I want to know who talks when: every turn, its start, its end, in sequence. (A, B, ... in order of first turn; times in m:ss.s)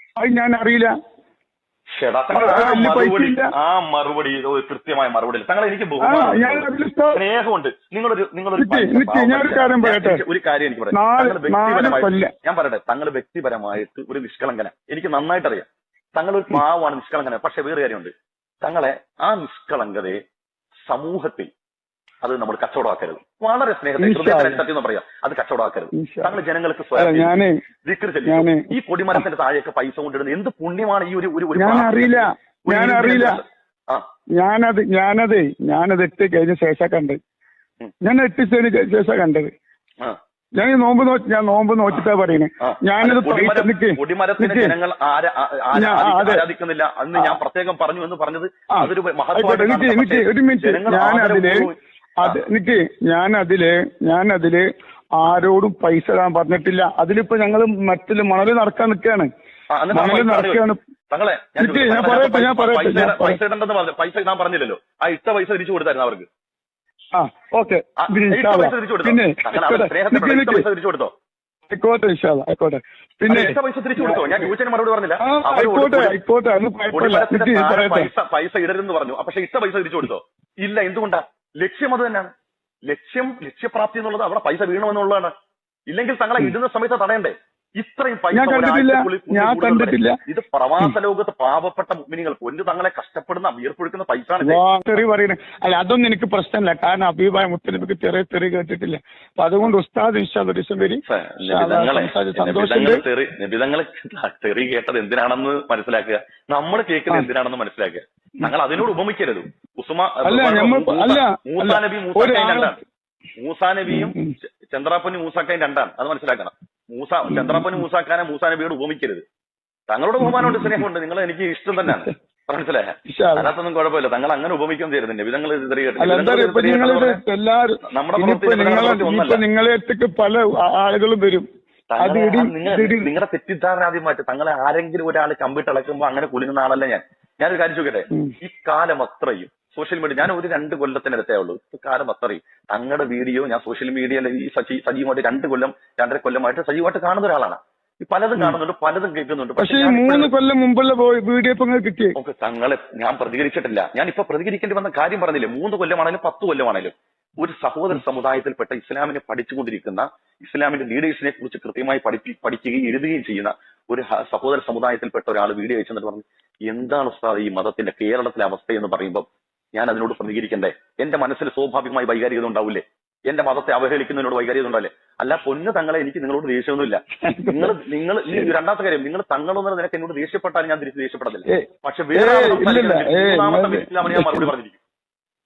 0:00.2-0:00.9 A
0:02.0-0:20.2 B
0:02.3-0:03.5 A
0:06.0-0:07.2 A
0:08.6-0:10.2 A
0:10.9-0:12.3 A
0:20.9-0:21.5 B
0:22.2-0:27.3 B
0:24.0-0:24.6 A
0:26.0-0:26.3 A
0:27.0-0:27.5 A
0:27.9-0:34.0 B
0:28.3-0:28.7 A
0:31.6-0:33.4 A
0:34.4-0:37.2 A
0:38.0-0:39.5 A
0:40.6-0:44.7 A
0:42.6-0:52.4 B
0:45.7-0:46.4 A
0:48.7-0:51.7 A
0:52.2-0:54.6 A
0:55.2-0:59.3 A
0:59.7-1:06.3 B
0:59.9-1:00.8 A
1:01.6-1:03.4 A
1:07.2-1:10.6 A
1:08.0-1:11.1 B
1:11.7-1:14.5 A
1:13.3-1:16.2 B
1:15.2-1:18.1 A
1:16.9-1:22.3 B
1:22.9-1:25.3 B
1:25.9-1:34.6 B
1:28.3-1:30.2 A
1:34.4-1:43.0 A
1:41.1-1:52.8 B
1:50.2-1:52.8 A
1:53.4-1:54.2 B
1:53.9-1:54.3 A
1:54.7-1:59.2 B
1:57.3-1:57.8 A
1:59.9-2:07.2 B
2:00.2-2:00.8 A
2:03.1-2:03.5 A
2:06.0-2:11.4 A
2:07.9-2:09.4 B
2:11.9-2:30.3 B
2:12.0-2:13.1 A
2:29.6-2:32.2 A
2:32.2-3:04.8 B
2:57.2-2:57.8 A
3:01.5-3:04.5 A